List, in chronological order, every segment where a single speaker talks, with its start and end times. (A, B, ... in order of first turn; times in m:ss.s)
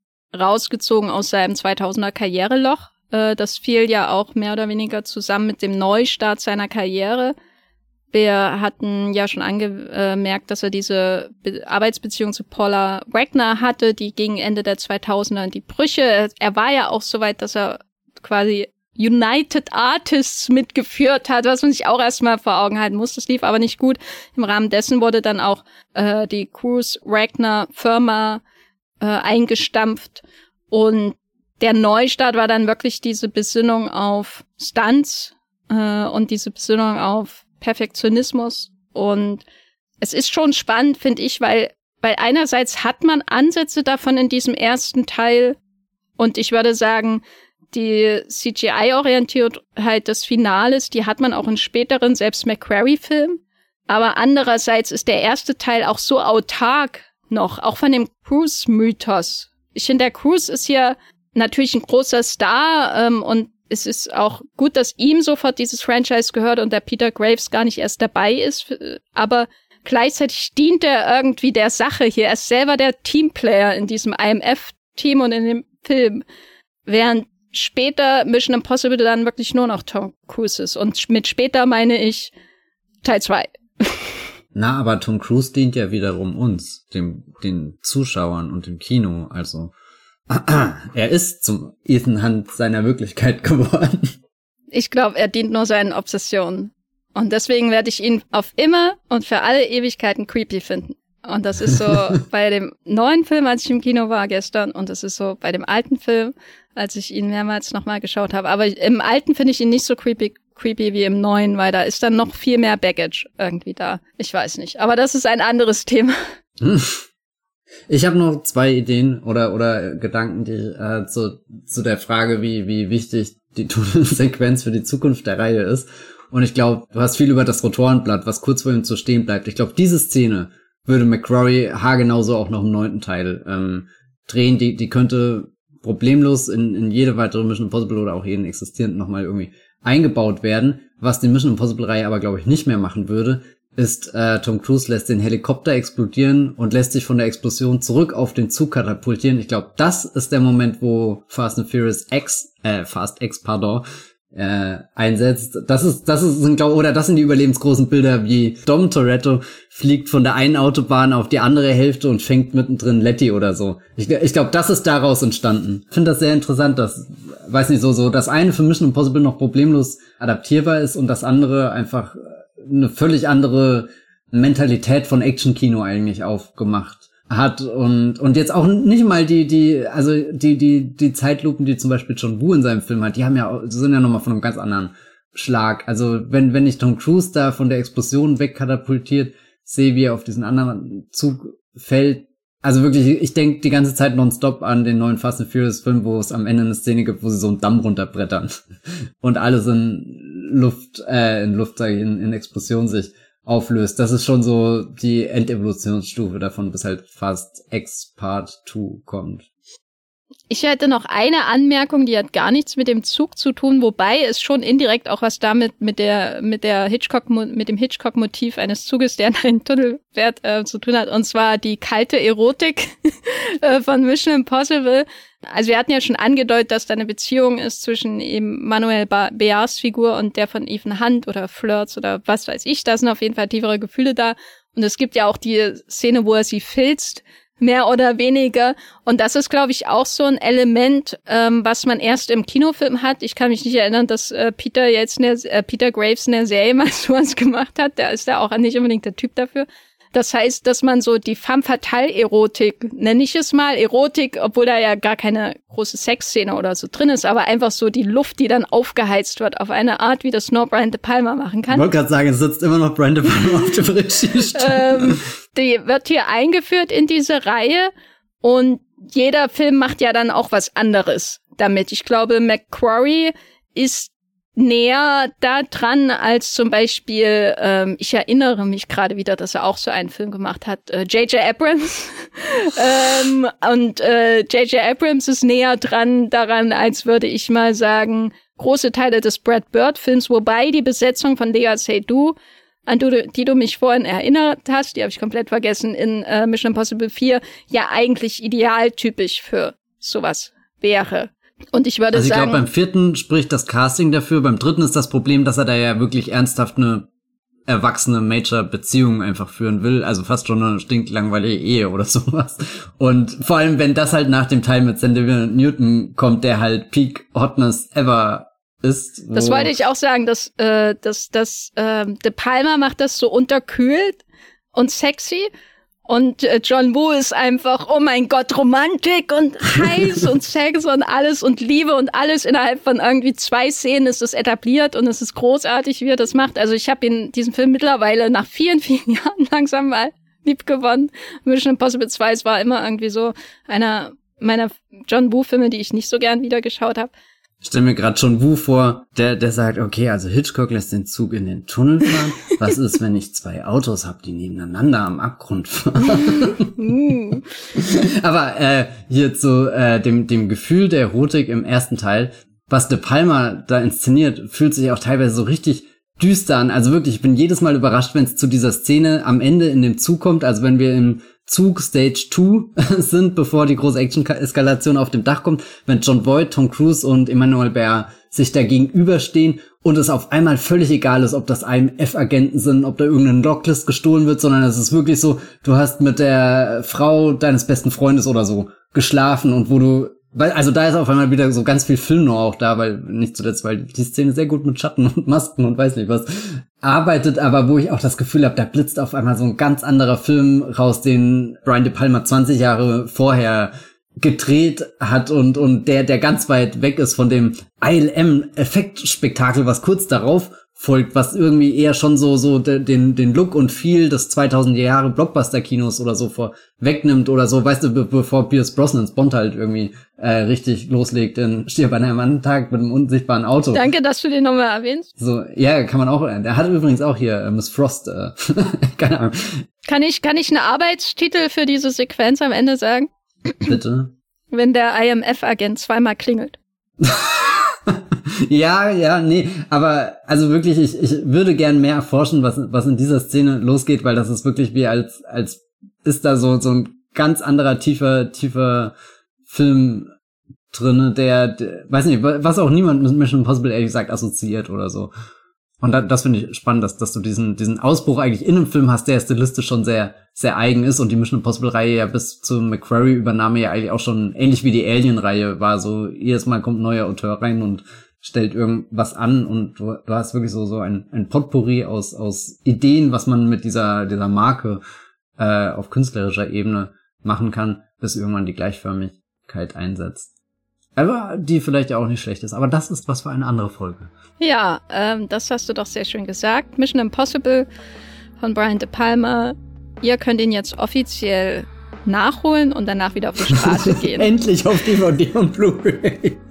0:00.3-0:07.4 A
0:08.1-0:28.4 A
0:29.0-0:39.4 A
0:40.0-0:45.6 A
0:46.2-1:16.2 A
1:16.9-1:22.3 A
1:23.0-1:24.1 A
1:24.5-1:29.7 B
1:30.3-1:34.1 B
1:34.7-1:56.2 A
1:56.6-1:57.0 B
1:57.9-3:29.5 B
3:30.5-4:21.9 A
4:21.7-4:25.2 B
4:24.5-4:27.9 A
4:28.4-4:52.4 A
4:52.9-5:02.6 A
5:02.1-5:07.1 B
5:07.7-5:19.7 B
5:19.3-5:25.5 A
5:26.1-5:47.1 A
5:47.6-7:03.9 B
5:56.8-5:57.4 A
7:03.7-7:05.1 A
7:05.2-7:09.6 B
7:09.9-7:13.8 A
7:13.7-7:14.1 B
7:14.5-7:16.6 A
7:17.0-7:28.9 B
7:29.5-7:30.1 B
7:30.7-7:35.1 B
7:35.8-7:54.8 B
7:55.4-8:00.3 B
8:01.0-8:04.1 B
8:04.4-8:07.7 A
8:08.4-8:14.3 A
8:13.6-8:16.4 B